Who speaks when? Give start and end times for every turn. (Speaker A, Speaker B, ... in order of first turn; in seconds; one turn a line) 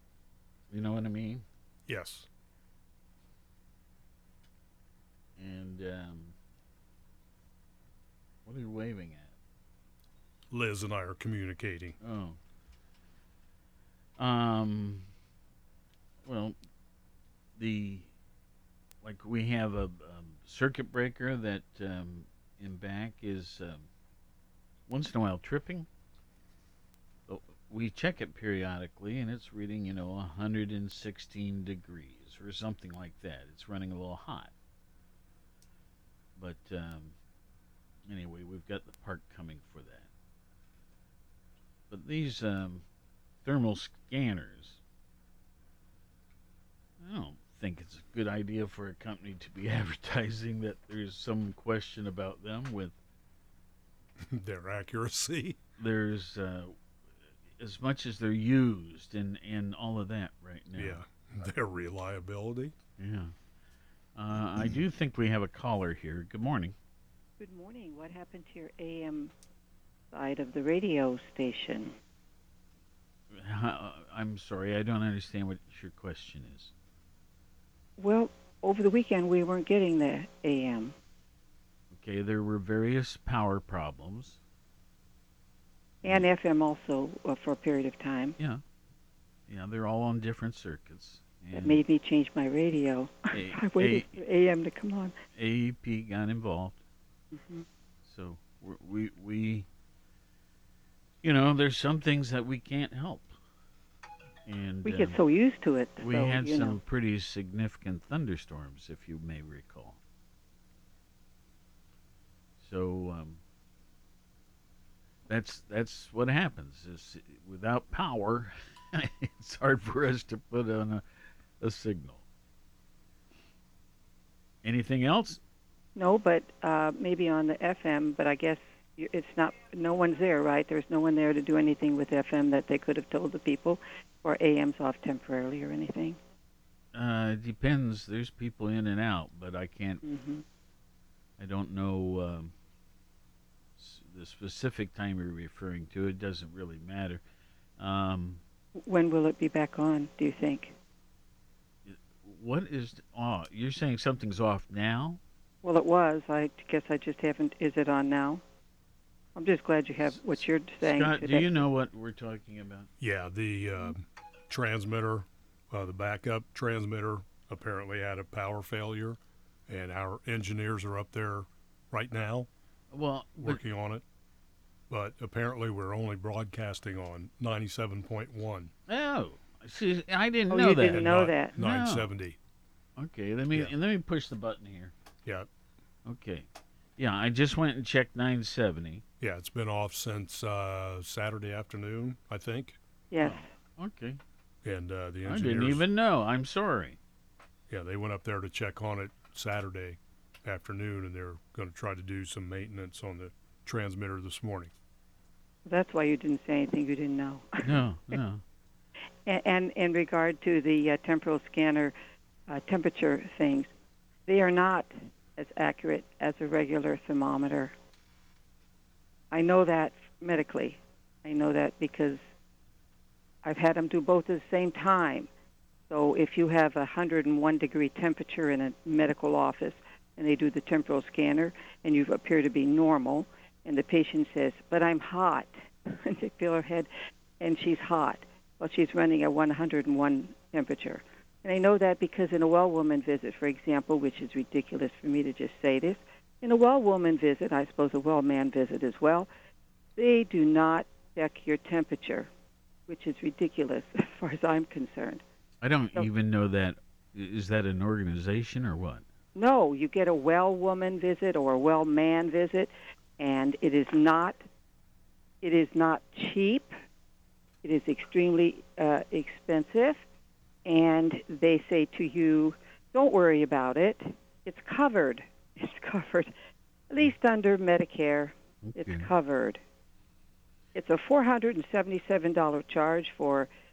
Speaker A: 0.7-1.4
Speaker B: 1.9-2.3
Speaker A: 5.4-6.3
Speaker A: 8.4-9.3
Speaker B: 10.5-12.0
Speaker A: 12.0-12.4
Speaker A: 14.2-15.1
Speaker A: 16.2-16.6
Speaker A: 17.6-18.1
Speaker A: 19.0-23.9
Speaker A: 24.9-25.9
Speaker A: 27.3-34.5
Speaker A: 36.4-37.1
Speaker A: 38.1-40.1
Speaker A: 41.9-42.8
Speaker A: 43.4-44.8
Speaker A: 47.0-53.0
Speaker B: 54.3-55.6
Speaker A: 55.8-56.8
Speaker A: 57.6-61.0
Speaker B: 60.8-62.7
Speaker A: 63.0-63.3
Speaker A: 64.2-66.8
Speaker C: 67.4-69.3
Speaker C: 70.1-72.0
Speaker A: 73.3-76.7
Speaker C: 78.0-80.9
Speaker A: 81.9-84.4
Speaker C: 86.0-88.3
Speaker A: 89.5-91.8
Speaker C: 91.5-95.2
Speaker A: 93.3-94.2
Speaker A: 95.3-96.8
Speaker C: 97.3-97.6
Speaker A: 98.0-99.7
Speaker A: 101.2-103.4
Speaker A: 104.5-105.2
Speaker C: 104.8-106.8
Speaker A: 106.0-110.0
Speaker A: 112.6-113.4
Speaker A: 115.3-121.0
Speaker A: 121.6-122.2
Speaker A: 124.6-125.4
Speaker C: 126.0-136.2
Speaker A: 136.9-140.0
Speaker C: 140.0-140.4
Speaker A: 141.4-142.5
Speaker A: 143.8-147.2
Speaker A: 147.8-148.4
Speaker C: 148.9-150.7
Speaker A: 151.8-155.2
Speaker C: 155.6-158.4
Speaker C: 159.3-161.6
Speaker A: 160.0-162.9
Speaker B: 163.0-172.5
Speaker A: 172.9-173.6
Speaker B: 173.4-174.0
Speaker B: 174.9-178.7
Speaker A: 178.9-182.1
Speaker C: 180.5-181.5
Speaker B: 180.8-182.4
Speaker A: 183.0-184.9
Speaker A: 186.0-189.0
Speaker B: 189.2-192.8
Speaker C: 193.1-193.5
Speaker A: 193.2-194.2
Speaker B: 194.6-195.8
Speaker A: 195.3-197.0
Speaker B: 197.7-204.7
Speaker C: 205.7-207.7
Speaker A: 207.6-208.4
Speaker C: 209.2-211.9
Speaker C: 212.5-213.7
Speaker C: 214.3-217.7
Speaker C: 219.3-222.2
Speaker C: 223.4-225.3
Speaker C: 225.9-249.3
Speaker C: 249.9-252.3
Speaker C: 252.9-255.2
Speaker A: 255.6-259.1
Speaker C: 259.3-264.4
Speaker C: 265.4-266.7
Speaker C: 267.6-270.0
Speaker C: 270.6-276.3
Speaker C: 276.9-279.6
Speaker A: 278.6-279.1
Speaker C: 280.7-283.5